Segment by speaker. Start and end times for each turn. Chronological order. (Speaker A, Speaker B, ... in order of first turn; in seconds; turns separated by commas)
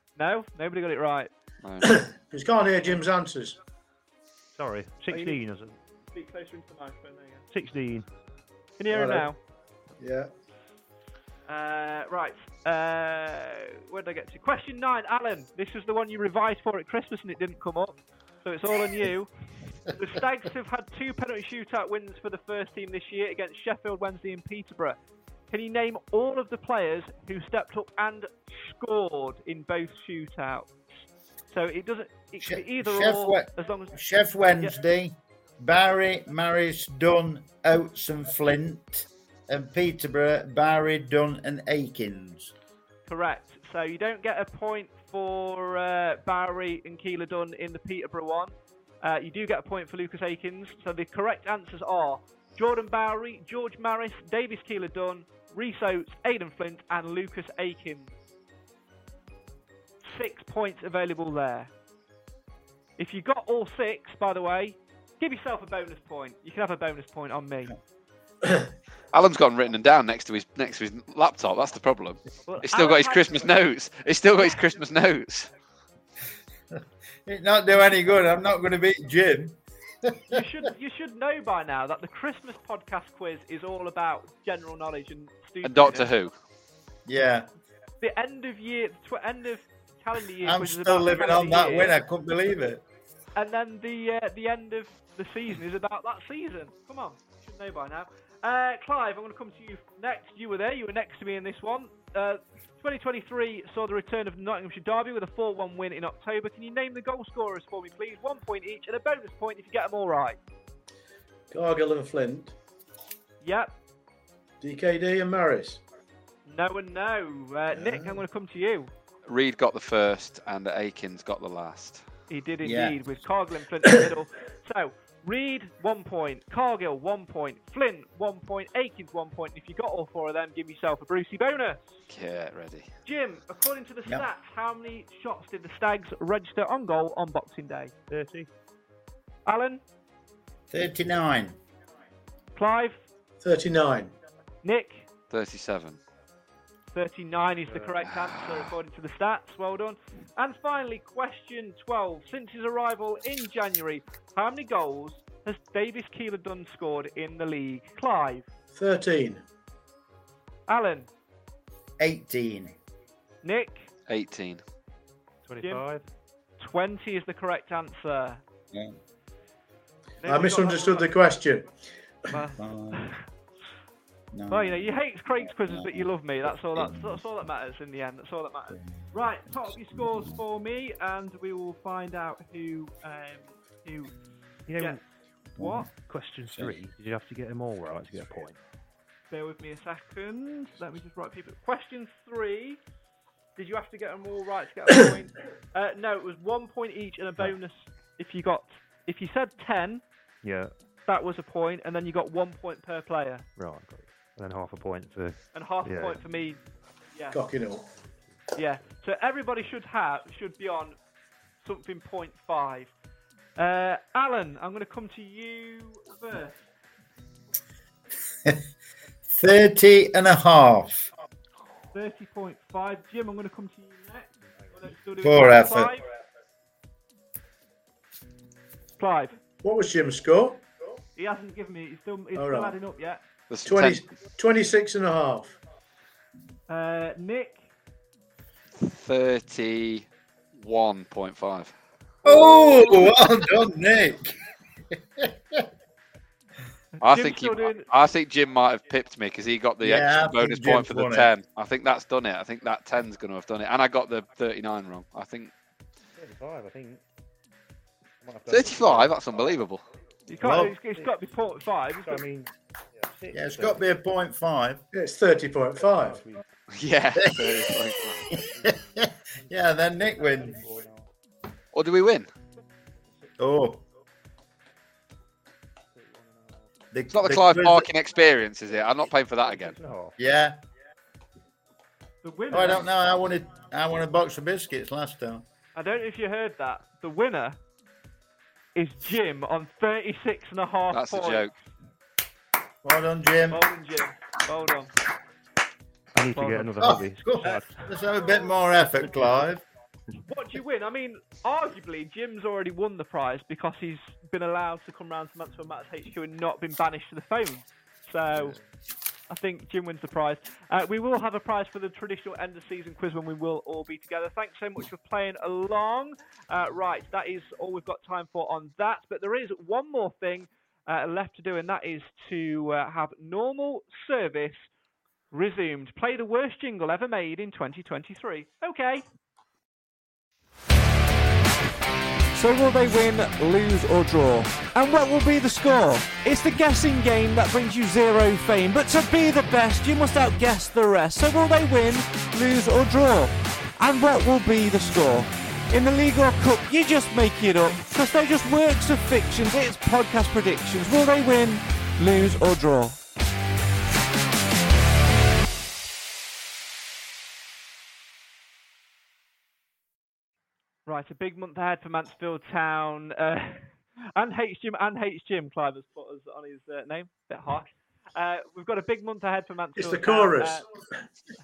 Speaker A: 0.2-1.3, Speaker B: 1.6-2.0, Speaker C: 1.8-3.6, Speaker D: 4.5-5.8, Speaker A: 5.1-5.4, Speaker A: 6.1-7.5, Speaker D: 7.5-8.1, Speaker A: 8.8-9.4, Speaker C: 8.9-9.3, Speaker C: 10.0-10.3, Speaker A: 11.5-19.3, Speaker A: 19.9-25.0, Speaker A: 25.5-30.7, Speaker A: 31.5-34.0, Speaker E: 32.4-42.5, Speaker A: 43.1-58.1, Speaker A: 60.0-61.7, Speaker A: 63.0-67.8, Speaker B: 69.1-75.5, Speaker A: 72.5-73.6, Speaker E: 77.3-80.4, Speaker A: 80.3-86.1, Speaker B: 85.6-86.3, Speaker E: 87.1-87.5, Speaker A: 88.0-92.0, Speaker E: 90.4-92.8, Speaker A: 93.3-110.4, Speaker C: 111.5-112.5, Speaker A: 113.4-113.7, Speaker C: 114.6-115.8, Speaker A: 116.5-118.9, Speaker C: 117.8-118.2, Speaker B: 119.3-122.1, Speaker A: 122.3-132.0, Speaker E: 122.6-123.0, Speaker B: 132.1-132.9, Speaker A: 133.1-137.9, Speaker D: 138.1-138.5, Speaker A: 139.5-139.8, Speaker E: 140.7-141.6, Speaker A: 142.6-143.0, Speaker C: 143.4-144.1, Speaker A: 144.6-145.1, Speaker B: 145.3-146.0, Speaker A: 146.9-158.5, Speaker D: 147.7-148.1, Speaker C: 158.8-159.4, Speaker A: 160.7-161.1, Speaker E: 162.0-162.8, Speaker A: 163.4-163.9, Speaker B: 164.1-164.6, Speaker D: 165.4-166.0, Speaker A: 166.6-168.4, Speaker A: 170.2-171.2, Speaker C: 170.3-171.7, Speaker A: 172.3-173.2, Speaker E: 172.5-173.1, Speaker E: 174.3-177.2, Speaker A: 174.5-184.1, Speaker E: 180.1-180.4, Speaker D: 184.7-185.0, Speaker A: 185.6-185.9, Speaker D: 185.6-188.6, Speaker E: 186.5-186.8, Speaker A: 189.3-192.8, Speaker A: 193.6-200.0, Speaker D: 200.4-200.7, Speaker A: 201.1-203.5, Speaker D: 203.6-206.2, Speaker A: 205.5-206.6, Speaker A: 207.2-207.4, Speaker C: 207.3-207.9, Speaker A: 208.6-211.0, Speaker A: 211.6-212.9, Speaker A: 213.6-216.6, Speaker E: 219.3-221.1, Speaker A: 221.9-226.0, Speaker D: 224.5-224.9, Speaker E: 225.2-225.9, Speaker A: 229.0-229.4, Speaker C: 229.6-230.6, Speaker A: 231.2-233.2, Speaker C: 232.3-232.8, Speaker B: 233.5-234.1, Speaker C: 233.7-235.6, Speaker A: 236.7-237.7, Speaker B: 238.8-241.7, Speaker E: 242.2-244.4, Speaker E: 244.9-245.7, Speaker A: 247.0-247.9, Speaker B: 247.0-255.5, Speaker E: 249.8-251.3, Speaker D: 256.1-257.0, Speaker D: 258.2-259.3, Speaker B: 258.5-259.8, Speaker A: 260.3-262.2, Speaker E: 260.4-260.7, Speaker D: 260.5-261.2, Speaker D: 262.0-263.8, Speaker E: 263.3-264.8, Speaker C: 264.9-266.2, Speaker D: 265.9-266.4, Speaker B: 266.8-268.3, Speaker E: 267.1-267.7, Speaker D: 268.2-268.8, Speaker E: 268.6-270.7, Speaker D: 269.3-271.1, Speaker B: 271.7-272.3, Speaker E: 273.4-273.8, Speaker D: 275.9-276.7, Speaker E: 276.9-277.9, Speaker B: 277.1-279.8, Speaker D: 279.5-280.2, Speaker E: 280.2-280.6, Speaker A: 282.2-282.9, Speaker E: 282.5-285.4, Speaker A: 285.8-287.6, Speaker A: 288.8-291.5, Speaker B: 290.9-291.5, Speaker E: 292.8-293.7, Speaker A: 293.5-294.9, Speaker D: 296.1-297.7, Speaker A: 296.4-296.8, Speaker E: 296.8-299.6, Speaker A: 300.3-308.6, Speaker A: 309.3-324.7, Speaker A: 325.3-329.1, Speaker F: 332.3-353.0, Speaker A: 360.9-370.7, Speaker C: 369.8-370.9